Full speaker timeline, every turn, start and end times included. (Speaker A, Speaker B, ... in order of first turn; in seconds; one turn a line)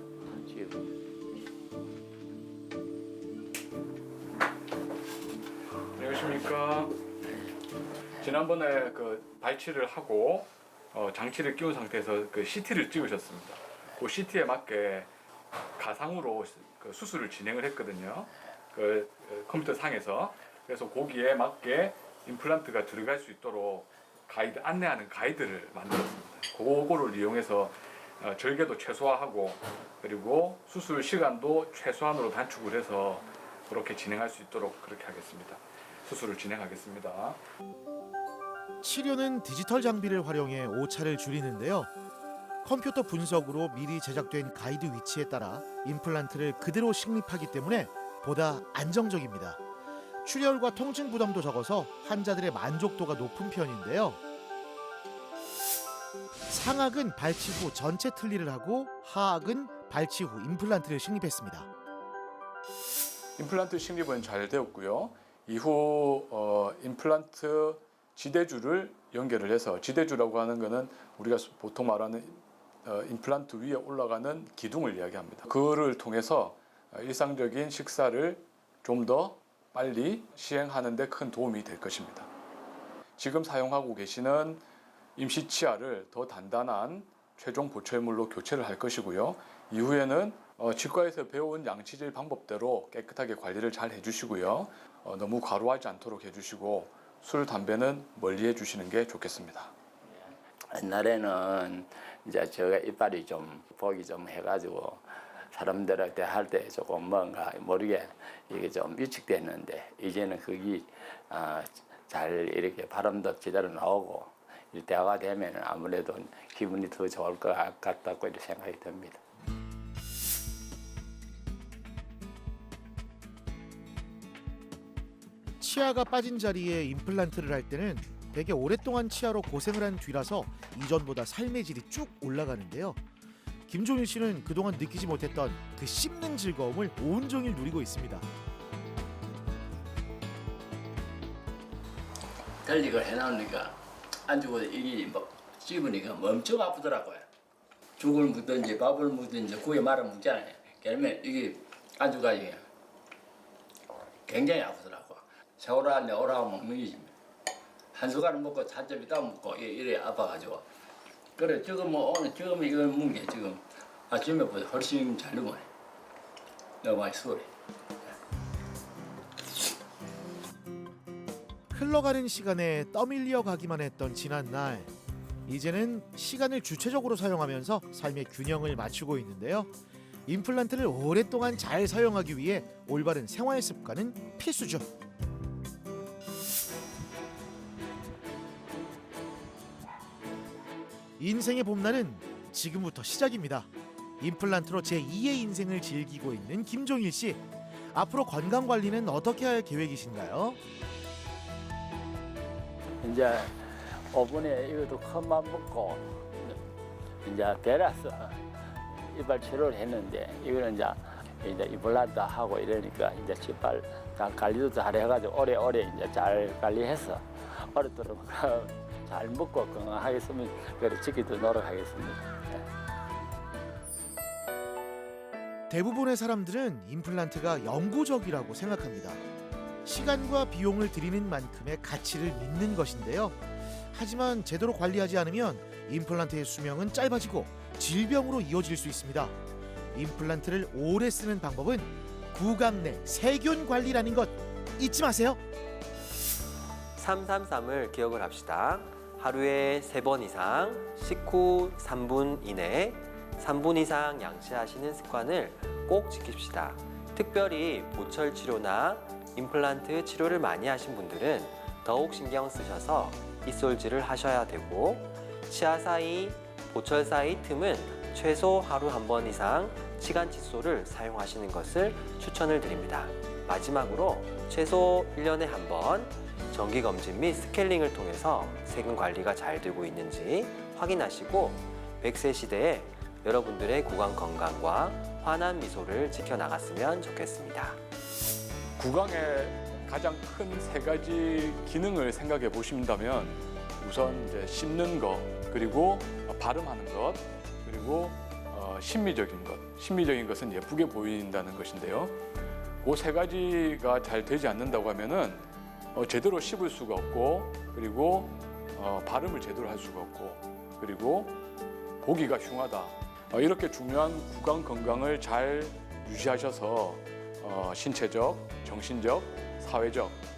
Speaker A: 0.3-0.8
Speaker B: 6.0-7.0
Speaker B: 8.2-15.1
Speaker B: 15.8-37.4
Speaker C: 38.8-41.9
Speaker C: 42.6-49.6
Speaker C: 50.2-54.2
Speaker C: 56.5-61.7
Speaker B: 63.4-82.3
Speaker B: 83.2-84.6
Speaker B: 85.2-99.7
Speaker A: 100.1-119.2
Speaker C: 125.6-133.0
Speaker C: 133.7-138.3
Speaker A: 142.6-147.2
Speaker A: 148.0-152.6
Speaker A: 154.2-157.1
Speaker A: 157.9-160.6
Speaker A: 161.3-165.7
Speaker A: 166.8-167.5
Speaker C: 171.7-174.9
Speaker C: 175.4-179.7
Speaker C: 180.3-184.9
Speaker C: 191.2-193.7
Speaker C: 194.2-200.6
Speaker A: 203.0-206.6
Speaker A: 207.2-208.4
Speaker A: 209.1-222.6
Speaker C: 225.7-229.2
Speaker C: 229.8-233.4
Speaker C: 233.9-239.3
Speaker C: 239.9-245.4
Speaker D: 246.9-287.8
Speaker B: 288.8-302.2
Speaker B: 302.8-311.4
Speaker B: 312.0-320.2